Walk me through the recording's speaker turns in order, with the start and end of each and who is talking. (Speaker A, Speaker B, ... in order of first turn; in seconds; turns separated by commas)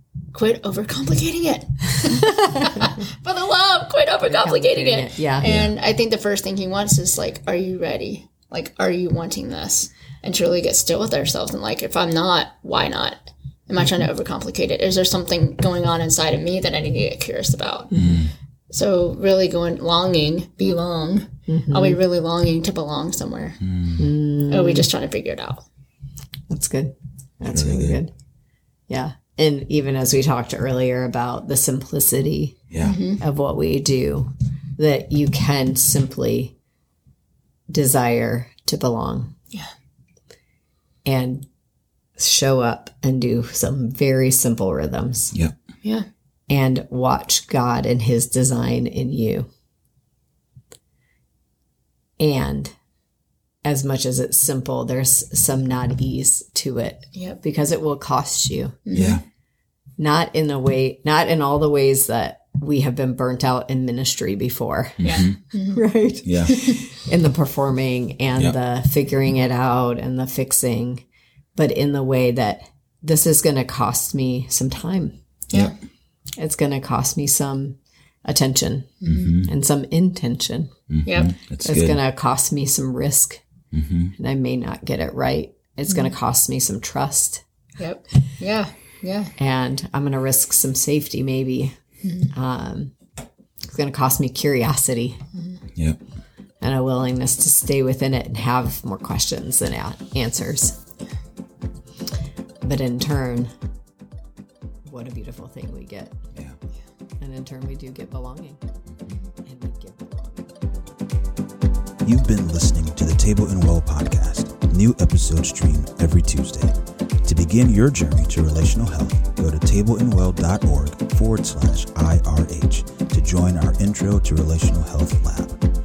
Speaker A: 0.3-17.9, Speaker B: 2.1-2.9, Speaker B: 4.3-5.5, Speaker C: 5.4-5.7, Speaker B: 17.9-18.2, Speaker C: 17.9-18.3, Speaker A: 18.7-23.6, Speaker B: 21.5-22.0, Speaker C: 23.6-24.1, Speaker B: 24.0-24.9, Speaker A: 24.5-25.6, Speaker B: 26.5-28.1, Speaker C: 27.5-28.0, Speaker B: 28.9-32.6, Speaker C: 32.7-33.0, Speaker A: 32.8-33.2, Speaker B: 33.2-36.5, Speaker B: 37.7-39.3, Speaker B: 41.0-41.5, Speaker B: 42.2-45.4, Speaker B: 46.5-49.5, Speaker B: 52.2-52.7, Speaker B: 53.6-58.8, Speaker A: 58.9-59.2, Speaker C: 58.9-59.2, Speaker B: 60.0-71.0, Speaker C: 65.0-65.4, Speaker A: 65.0-65.8, Speaker C: 66.2-66.6, Speaker A: 66.5-66.8, Speaker B: 71.6-75.2, Speaker B: 76.4-80.7, Speaker A: 79.0-79.3, Speaker C: 79.1-79.5, Speaker C: 80.9-82.0, Speaker A: 81.1-81.3, Speaker B: 81.6-83.4, Speaker C: 83.7-84.1, Speaker B: 84.2-87.4, Speaker A: 87.8-89.3, Speaker B: 89.4-91.8, Speaker A: 92.0-92.3, Speaker B: 92.3-92.9, Speaker B: 93.7-95.2, Speaker A: 95.3-95.6, Speaker C: 95.8-96.0, Speaker B: 96.6-100.8, Speaker B: 102.6-103.5, Speaker B: 104.9-106.2, Speaker B: 107.2-108.6, Speaker B: 109.5-110.5, Speaker C: 112.0-125.6